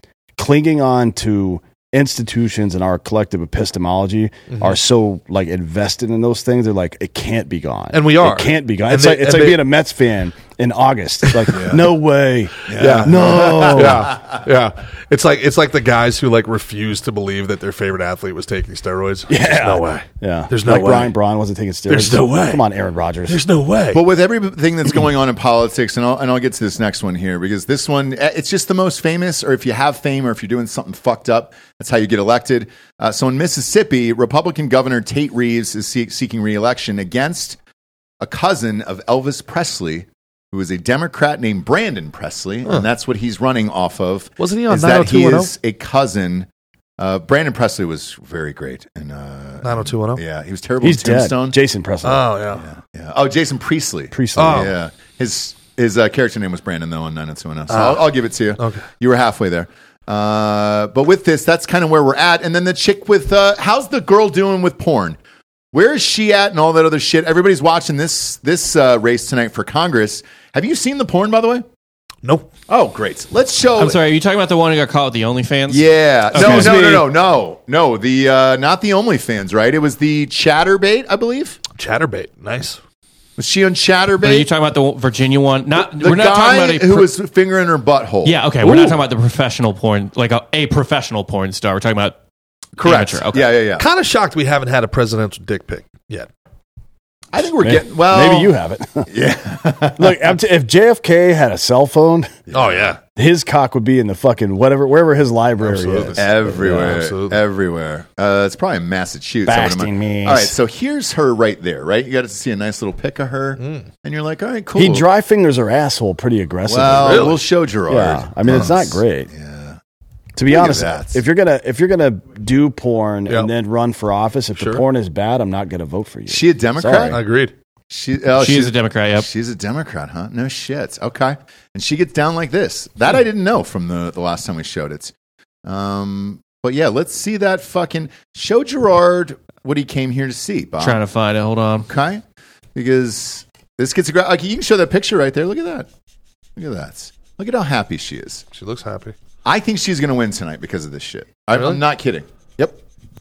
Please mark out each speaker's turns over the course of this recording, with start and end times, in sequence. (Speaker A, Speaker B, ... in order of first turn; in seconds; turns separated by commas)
Speaker A: 0.4-14.1, Speaker B: 4.5-4.8, Speaker B: 7.9-9.7, Speaker B: 11.3-11.6, Speaker C: 11.5-11.9, Speaker C: 12.7-14.4, Speaker B: 12.8-21.1, Speaker A: 19.3-23.4, Speaker B: 21.9-22.6, Speaker B: 23.3-24.0, Speaker C: 23.9-37.6, Speaker C: 38.2-46.5, Speaker B: 44.4-45.5, Speaker C: 47.0-51.6, Speaker B: 49.6-50.2, Speaker A: 50.8-52.4, Speaker B: 52.0-52.7, Speaker C: 52.6-65.2, Speaker A: 54.1-54.8, Speaker B: 54.4-54.7, Speaker B: 57.7-58.9, Speaker C: 65.7-71.7, Speaker C: 72.7-74.0, Speaker D: 73.8-76.9, Speaker C: 75.7-81.6, Speaker B: 76.4-76.9, Speaker A: 76.4-77.0, Speaker B: 81.8-82.8, Speaker C: 83.4-84.5, Speaker D: 84.2-87.1, Speaker C: 85.8-88.4, Speaker D: 88.2-92.2, Speaker C: 92.8-93.9, Speaker D: 92.8-93.5, Speaker B: 93.8-96.3, Speaker C: 97.3-98.5, Speaker A: 97.6-99.1, Speaker C: 99.1-100.2, Speaker A: 100.0-102.3, Speaker C: 102.5-102.9, Speaker B: 102.5-103.0, Speaker A: 103.2-107.0, Speaker B: 105.6-107.4, Speaker C: 106.2-115.0, Speaker A: 109.5-110.6, Speaker B: 113.6-113.9, Speaker A: 114.7-119.3, Speaker C: 116.7-119.8, Speaker B: 117.0-117.4, Speaker A: 120.4-127.2, Speaker C: 120.5-121.2, Speaker B: 124.6-124.8, Speaker C: 126.3-127.2, Speaker B: 127.1-127.5, Speaker C: 127.9-135.1, Speaker D: 128.3-129.3, Speaker C: 135.7-141.0, Speaker D: 140.8-141.9, Speaker C: 141.9-142.2, Speaker C: 142.8-145.9, Speaker C: 146.6-148.4, Speaker B: 148.5-149.2, Speaker C: 149.4-152.8, Speaker B: 151.5-151.8